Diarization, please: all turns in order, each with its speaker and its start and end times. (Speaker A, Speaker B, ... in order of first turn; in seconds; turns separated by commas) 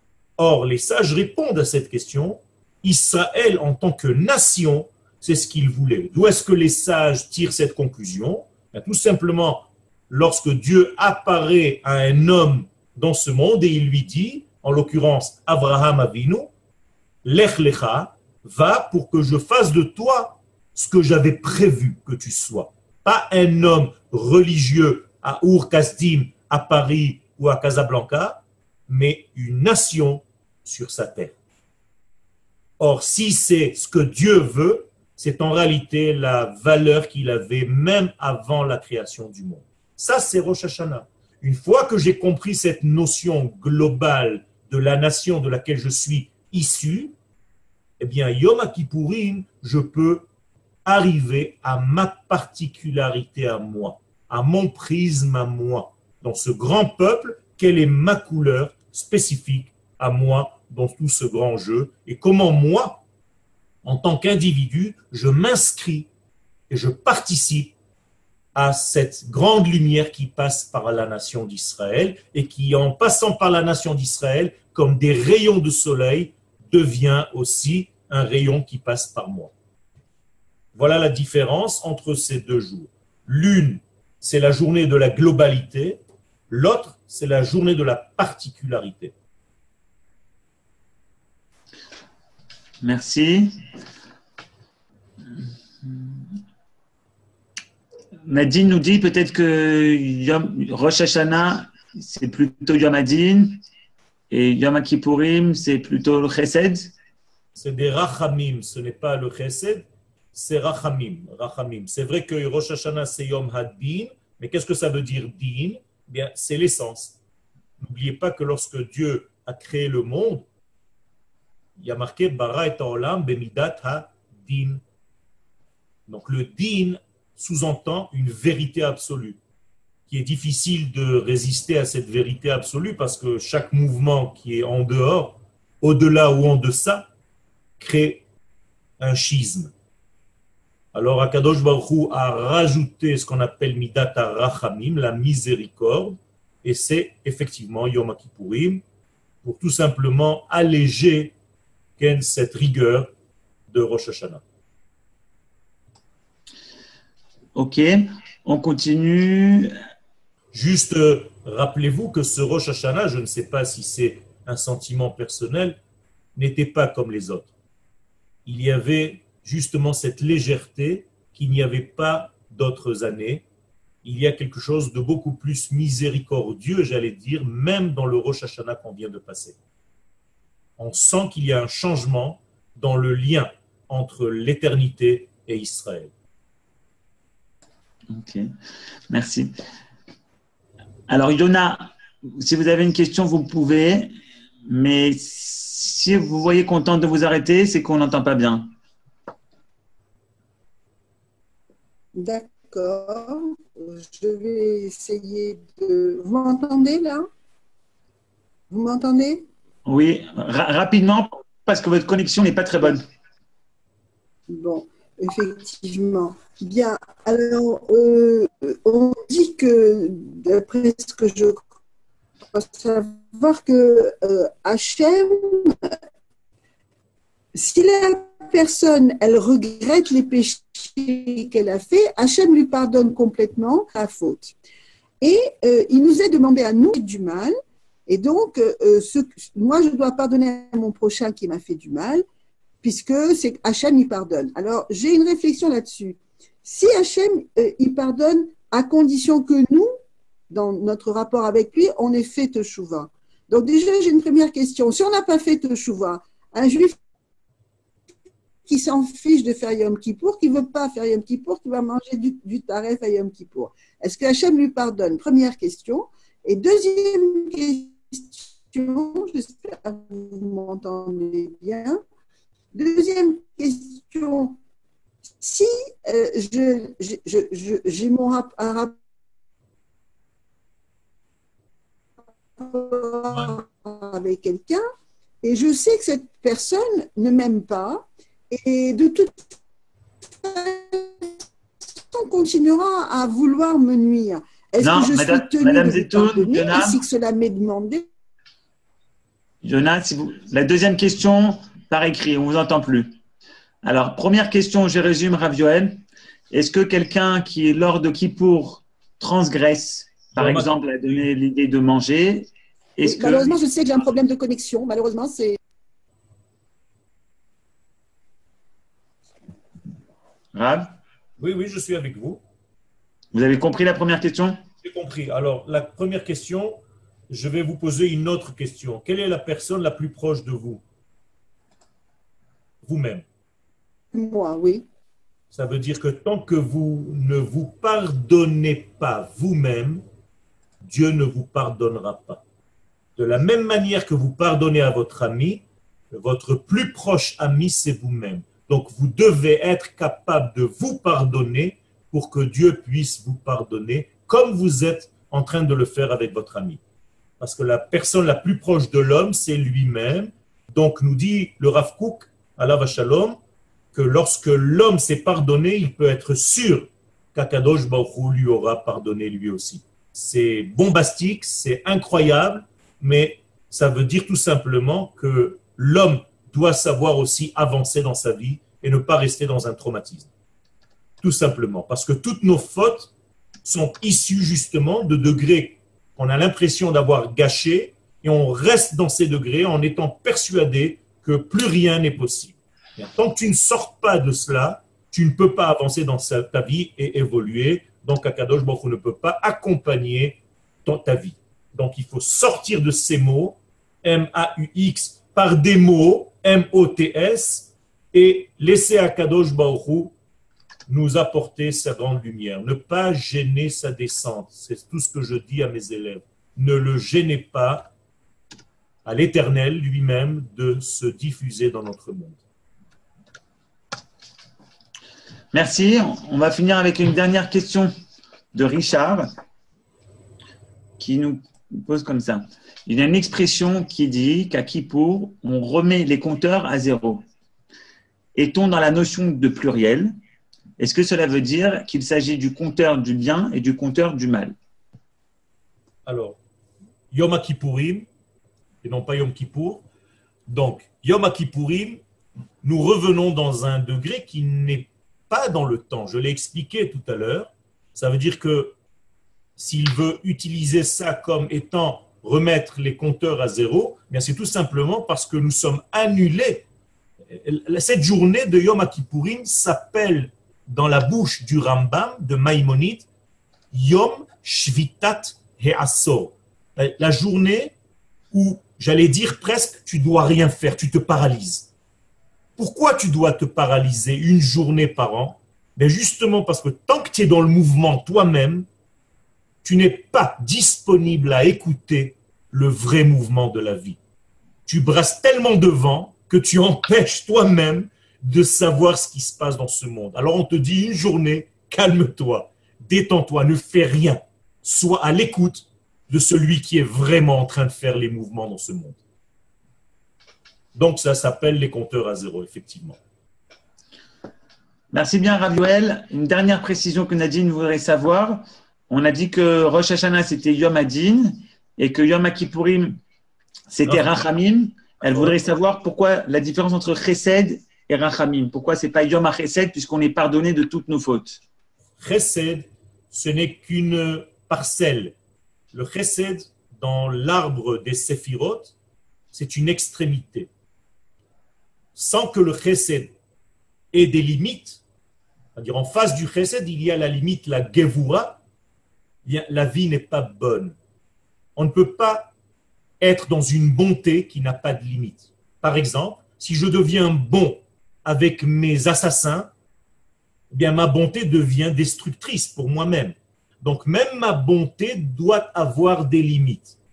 Speaker A: 0.4-16.5, Speaker A: 17.2-31.3, Speaker A: 32.8-47.1, Speaker A: 48.0-50.3, Speaker A: 50.8-63.0, Speaker A: 63.8-66.1, Speaker A: 66.7-67.7, Speaker A: 68.5-79.5, Speaker A: 80.7-89.1, Speaker B: 92.8-93.6, Speaker B: 95.8-96.2, Speaker B: 98.2-103.6, Speaker B: 104.3-106.9, Speaker A: 107.5-117.2, Speaker A: 117.8-120.5, Speaker A: 121.8-124.8, Speaker A: 126.1-129.4, Speaker A: 130.1-137.1, Speaker A: 137.8-138.2, Speaker A: 139.0-139.7, Speaker A: 140.9-148.8, Speaker A: 149.4-151.3, Speaker A: 152.0-153.1, Speaker A: 153.7-154.4, Speaker B: 157.5-159.7, Speaker A: 160.5-165.8, Speaker A: 166.3-167.5, Speaker A: 168.4-173.4, Speaker A: 174.0-179.6, Speaker A: 180.8-186.1, Speaker B: 188.1-188.5, Speaker B: 189.1-189.5, Speaker B: 191.1-194.1, Speaker B: 194.7-198.7, Speaker C: 202.1-207.3, Speaker C: 208.7-209.4, Speaker B: 209.8-213.0, Speaker C: 214.5-221.7, Speaker C: 222.5-225.9, Speaker C: 227.5-234.5, Speaker C: 235.2-237.5, Speaker C: 238.1-242.2, Speaker C: 242.8-249.9, Speaker C: 250.5-256.9, Speaker C: 258.7-272.0, Speaker C: 272.7-274.6, Speaker C: 275.4-278.9, Speaker C: 282.6-284.8, Speaker A: 283.3-283.6, Speaker C: 285.4-289.4, Speaker C: 290.4-291.3, Speaker C: 292.1-298.1, Speaker B: 294.8-297.0, Speaker B: 299.6-303.1, Speaker B: 303.8-313.6, Speaker A: 310.4-310.8, Speaker C: 313.0-315.6, Speaker B: 320.5-320.9, Speaker A: 321.4-322.4, Speaker B: 323.3-324.6, Speaker A: 324.8-330.8, Speaker A: 332.8-333.2, Speaker C: 334.1-334.9, Speaker A: 335.5-340.0, Speaker A: 340.8-342.4, Speaker A: 343.1-356.8, Speaker A: 357.4-363.4, Speaker A: 363.9-380.3, Speaker A: 381.2-383.1, Speaker A: 383.6-410.1, Speaker A: 410.9-417.9, Speaker A: 419.0-422.4, Speaker B: 425.5-427.9, Speaker B: 428.5-429.3, Speaker B: 431.0-437.2, Speaker B: 438.3-440.1, Speaker B: 440.8-444.5, Speaker A: 446.1-446.4, Speaker A: 447.1-448.1, Speaker A: 448.8-449.8, Speaker A: 450.5-452.0, Speaker A: 452.6-458.7, Speaker A: 459.6-466.7, Speaker A: 467.3-473.1, Speaker A: 473.7-477.7, Speaker A: 478.3-481.7, Speaker A: 482.6-488.6, Speaker A: 489.6-494.0, Speaker A: 494.7-509.0, Speaker A: 510.7-513.0, Speaker B: 514.9-523.0, Speaker B: 523.7-531.4, Speaker A: 525.1-525.4, Speaker A: 532.0-535.1, Speaker A: 535.7-538.8, Speaker A: 539.3-540.5, Speaker A: 542.0-543.1, Speaker A: 543.9-544.8, Speaker A: 545.5-548.4, Speaker A: 549.2-550.8, Speaker A: 551.5-552.3, Speaker A: 553.0-559.5, Speaker A: 560.5-566.8